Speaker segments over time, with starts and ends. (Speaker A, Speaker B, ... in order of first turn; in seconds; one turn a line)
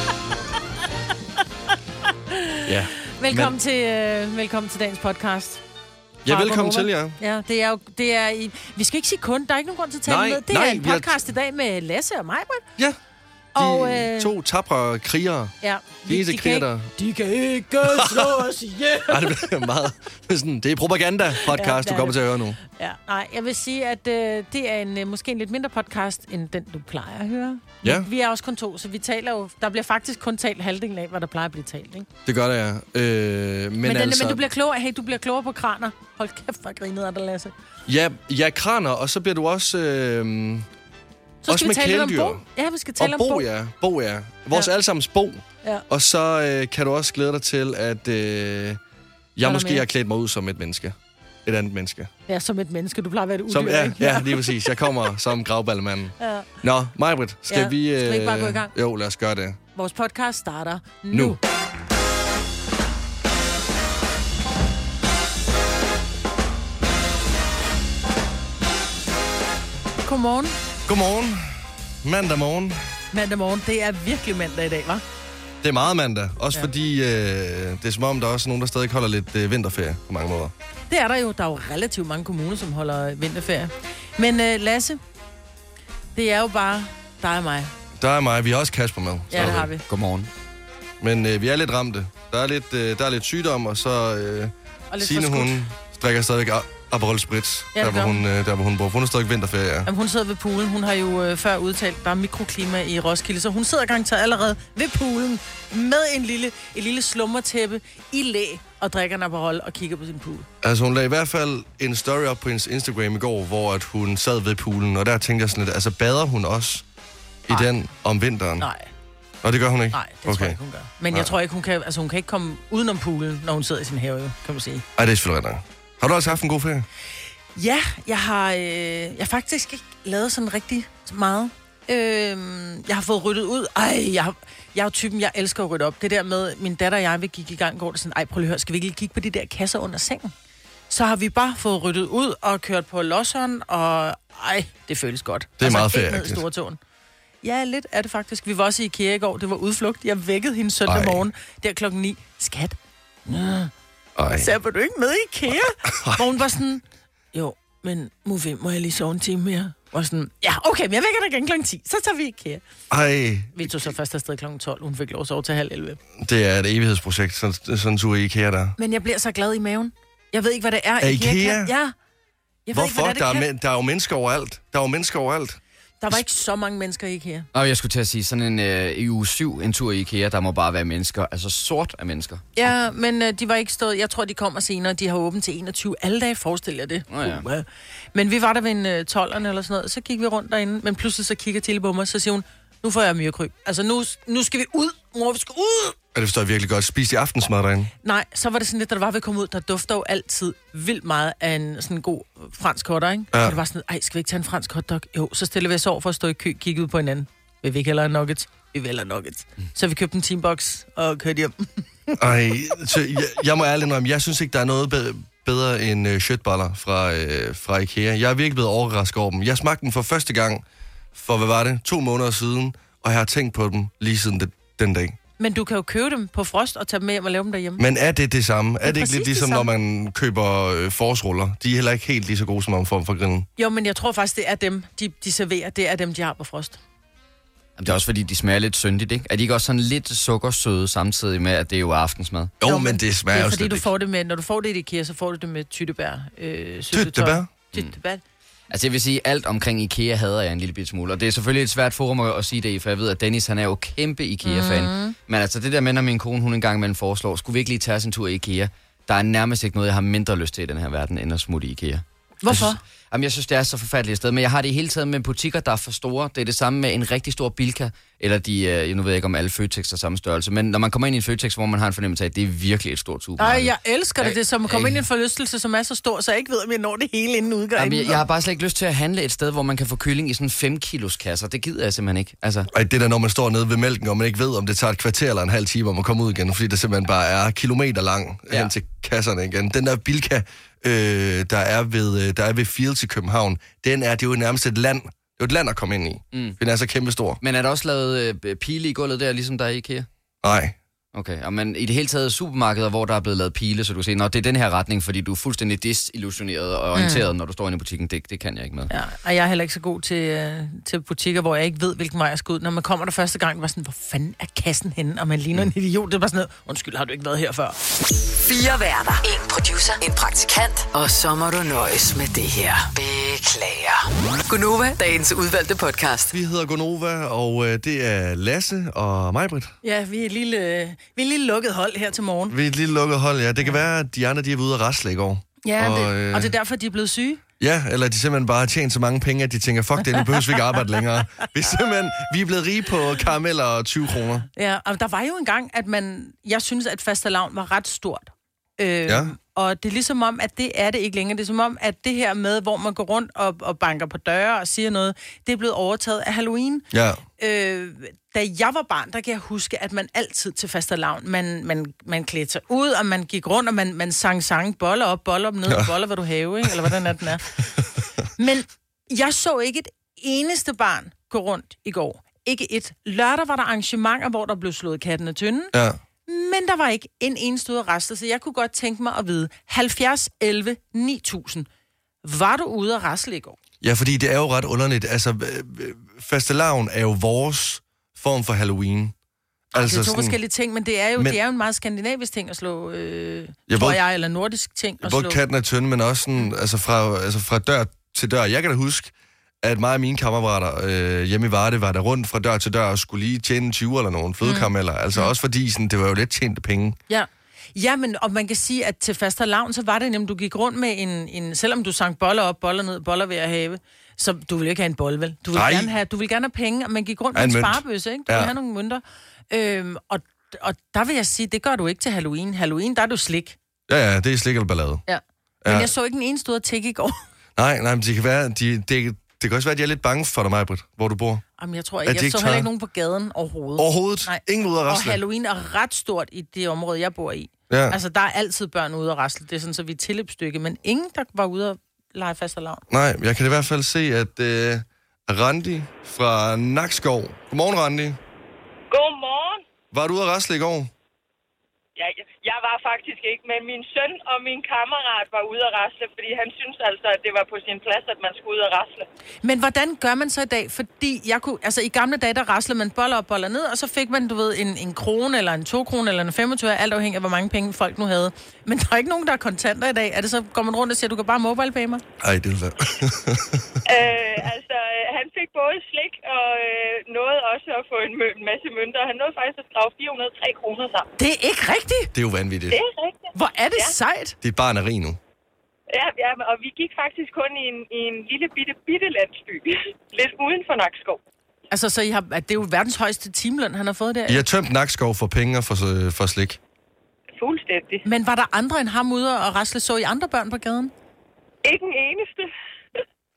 Speaker A: 2.3-5.6
Speaker B: 2.7-3.5
Speaker B: 6.2-7.2
Speaker A: 6.3-12.6
Speaker B: 10.1-11.2
Speaker A: 13.5-14.3
Speaker B: 13.5-15.5
Speaker A: 15.6-19.5
Speaker B: 16.0-16.9
Speaker B: 17.9-18.4
Speaker B: 19.1-22.6
Speaker A: 21.4-32.1
Speaker B: 27.8-28.1
Speaker B: 32.2-34.4
Speaker A: 33.8-37.5
Speaker B: 37.9-40.7
Speaker A: 41.4-43.5
Speaker B: 41.5-42.4
Speaker B: 43.0-48.8
Speaker B: 49.4-52.1
Speaker A: 49.4-49.8
Speaker A: 52.3-54.9
Speaker B: 53.5-59.6
Speaker A: 56.2-56.5
Speaker A: 57.5-58.7
Speaker A: 59.7-61.4
Speaker B: 61.1-61.4
Speaker A: 70.0-70.5
Speaker B: 70.8-71.4
Speaker B: 72.0-72.8
Speaker A: 73.1-75.0
Speaker B: 75.6-80.5
Speaker A: 80.9-85.0
Speaker A: 86.1-87.7
Speaker B: 88.0-89.7
Speaker A: 89.3-89.8
Speaker C: 89.4-90.3
Speaker B: 91.0-99.9
Speaker A: 94.9-95.6
Speaker A: 97.7-98.2
Speaker A: 99.8-110.5
Speaker B: 110.6-116.8
Speaker B: 117.5-118.7
Speaker A: 118.6-118.9
Speaker B: 119.4-120.6
Speaker A: 119.9-124.8
Speaker B: 125.0-126.9
Speaker A: 127.5-140.3
Speaker A: 140.9-146.8
Speaker B: 145.6-146.4
Speaker A: 147.4-153.7
Speaker B: 150.8-151.2
Speaker B: 154.2-154.5
Speaker A: 154.3-162.6
Speaker B: 155.9-156.2
Speaker B: 162.9-163.9
Speaker A: 163.6-166.0
Speaker B: 166.2-168.8
Speaker A: 168.8-171.9
Speaker B: 171.0-171.7
Speaker A: 172.7-173.5
Speaker B: 172.7-175.6
Speaker A: 176.0-177.5
Speaker C: 177.5-182.4
Speaker A: 182.5-196.0
Speaker C: 187.1-187.4
Speaker B: 196.1-197.9
Speaker A: 198.0-212.2
Speaker B: 212.2-225.2
Speaker A: 225.4-227.8
Speaker B: 227.8-233.5
Speaker A: 228.8-229.7
Speaker A: 233.6-236.8
Speaker C: 237.8-242.5
Speaker B: 242.6-243.9
Speaker A: 242.6-248.2
Speaker B: 246.9-247.5
Speaker C: 248.7-275.0
Speaker A: 254.4-255.2
Speaker A: 262.4-262.8
Speaker A: 273.4-278.2
Speaker C: 277.8-282.7
Speaker B: 282.7-297.4
Speaker C: 297.4-300.1
Speaker B: 300.4-300.8
Speaker C: 301.1-308.9
Speaker A: 306.9-307.3
Speaker A: 308.9-317.8
Speaker D: 318.3-326.3
Speaker B: 326.3-329.7
Speaker A: 329.8-332.6
Speaker B: 332.5-336.5
Speaker A: 335.6-337.4
Speaker B: 337.6-344.4
Speaker A: 340.1-341.4
Speaker A: 344.6-356.8
Speaker B: 349.1-349.3
Speaker B: 356.9-357.2
Speaker A: 357.4-367.5
Speaker A: 368.4-375.7
Speaker B: 375.7-376.0
Speaker A: 376.3-381.7
Speaker A: 382.2-383.6
Speaker B: 383.8-389.1
Speaker B: 389.7-390.4
Speaker A: 389.7-395.4
Speaker B: 393.7-394.0
Speaker B: 395.0-407.0
Speaker A: 404.4-405.3
Speaker A: 407.1-423.6
Speaker B: 415.5-415.9
Speaker B: 417.3-418.5
Speaker B: 423.9-425.0
Speaker A: 425.1-427.2
Speaker B: 425.6-425.9
Speaker B: 427.6-431.4
Speaker A: 431.6-442.8
Speaker B: 432.1-432.7
Speaker B: 433.8-435.2
Speaker B: 437.7-438.0
Speaker B: 442.9-448.2
Speaker E: 448.9-449.6
Speaker B: 449.9-450.9
Speaker E: 452.0-459.1
Speaker A: 459.4-472.0
Speaker B: 472.2-473.7
Speaker E: 473.8-481.1
Speaker A: 481.2-482.1
Speaker B: 482.1-482.8
Speaker E: 482.7-483.9
Speaker A: 483.3-484.4
Speaker B: 484.4-485.2
Speaker E: 485.9-491.2
Speaker A: 491.7-494.4
Speaker B: 494.3-496.6
Speaker E: 497.4-498.0
Speaker A: 498.0-500.9
Speaker E: 501.6-502.5